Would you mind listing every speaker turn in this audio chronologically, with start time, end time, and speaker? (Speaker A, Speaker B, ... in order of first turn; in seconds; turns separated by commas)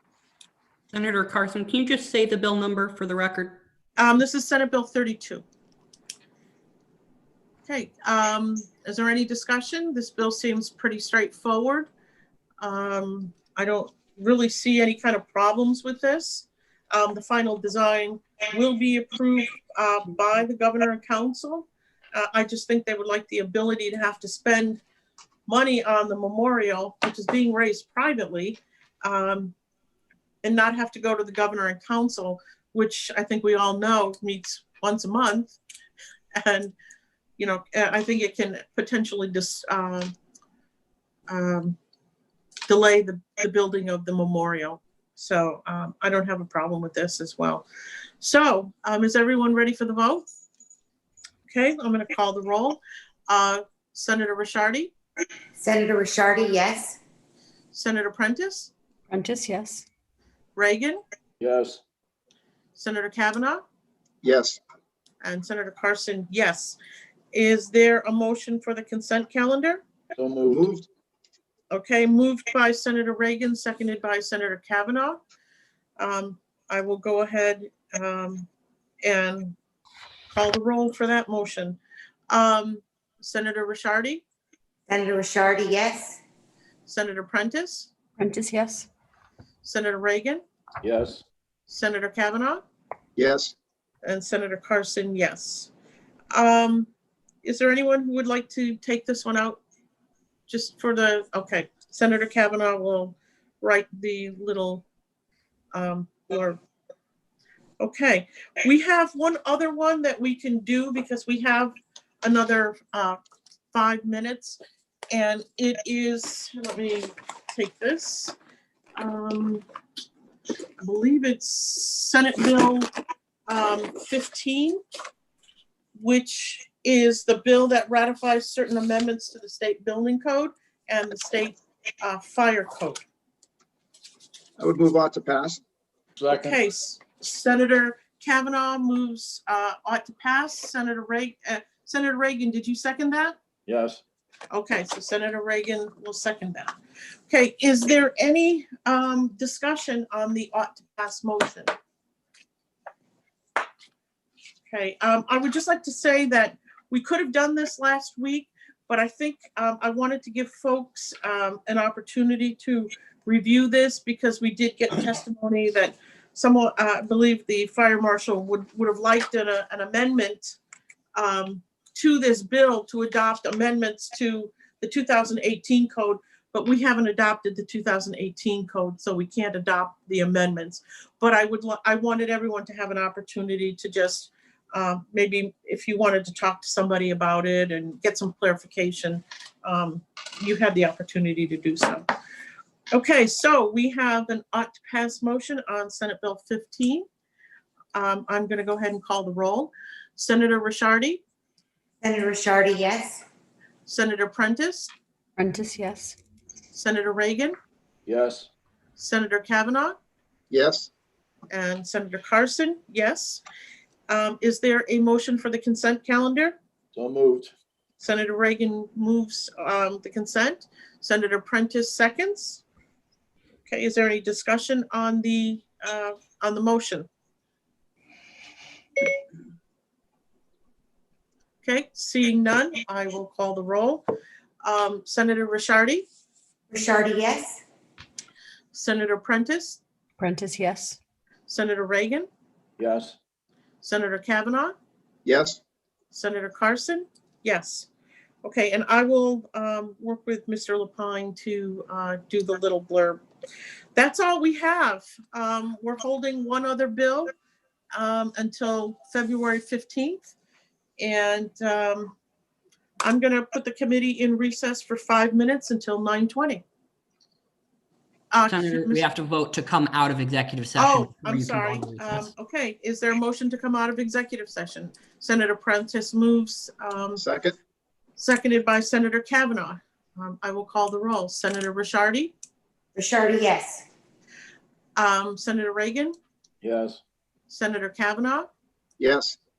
Speaker A: 0.9-3.6, Speaker B: 4.0-5.5, Speaker B: 7.7-11.9, Speaker B: 12.6-24.8, Speaker B: 25.5-29.5, Speaker B: 30.4-35.6, Speaker B: 36.4-36.7, Speaker B: 37.4-40.1, Speaker B: 41.3-41.8, Speaker B: 42.7-47.6, Speaker B: 48.2-50.3, Speaker B: 51.5-54.9, Speaker C: 55.6-57.0, Speaker B: 57.7-58.7, Speaker D: 59.1-59.9, Speaker B: 60.6-61.0, Speaker E: 61.4-61.8, Speaker B: 62.8-63.6, Speaker F: 64.2-64.6, Speaker B: 65.2-66.8, Speaker B: 67.3-69.8, Speaker E: 70.2-70.8, Speaker F: 70.5-70.8, Speaker B: 71.7-75.2, Speaker B: 76.0-78.5, Speaker B: 79.0-79.6, Speaker B: 80.3-81.8, Speaker B: 82.3-84.2, Speaker C: 84.9-86.2, Speaker B: 86.9-87.9, Speaker D: 88.2-88.9, Speaker B: 89.6-90.4, Speaker E: 90.8-91.2, Speaker B: 91.7-92.6, Speaker F: 93.2-93.5, Speaker B: 94.0-95.7, Speaker B: 96.3-96.9, Speaker B: 97.4-99.6, Speaker B: 100.5-104.8, Speaker B: 105.7-106.6, Speaker B: 107.8-113.2, Speaker B: 113.7-114.6, Speaker B: 115.1-118.3, Speaker B: 119.0-119.6, Speaker B: 120.8-122.9, Speaker B: 123.5-124.8, Speaker B: 126.0-133.0, Speaker F: 134.6-135.6, Speaker E: 136.2-136.6, Speaker B: 136.3-143.4, Speaker E: 143.7-144.0, Speaker B: 144.5-146.8, Speaker B: 147.3-151.7, Speaker B: 154.7-170.6, Speaker B: 171.2-192.1, Speaker B: 192.9-197.1, Speaker B: 197.9-201.2, Speaker C: 202.0-203.2, Speaker B: 203.9-204.9, Speaker D: 205.4-206.2, Speaker B: 206.7-207.6, Speaker E: 208.1-208.5, Speaker B: 209.0-210.0, Speaker F: 210.5-210.9, Speaker B: 211.5-213.4, Speaker B: 214.1-216.6, Speaker E: 216.9-217.5, Speaker B: 218.0-222.6, Speaker B: 223.7-227.1, Speaker B: 231.6-234.0, Speaker B: 234.6-236.1, Speaker C: 236.7-237.6, Speaker B: 238.7-239.8, Speaker D: 240.2-241.0, Speaker B: 241.5-242.3, Speaker E: 242.8-243.2, Speaker B: 243.8-244.8, Speaker F: 245.3-245.6, Speaker B: 246.1-247.9, Speaker B: 248.4-253.2, Speaker B: 253.9-257.3, Speaker B: 257.9-260.3, Speaker B: 261.0-262.1, Speaker B: 263.0-266.6, Speaker B: 268.3-269.1, Speaker A: 268.5-272.3, Speaker B: 270.8-277.2, Speaker F: 277.2-277.6, Speaker B: 278.2-282.3, Speaker C: 283.0-283.9, Speaker B: 285.0-286.1, Speaker E: 286.6-287.0, Speaker B: 287.5-288.5, Speaker F: 289.0-289.4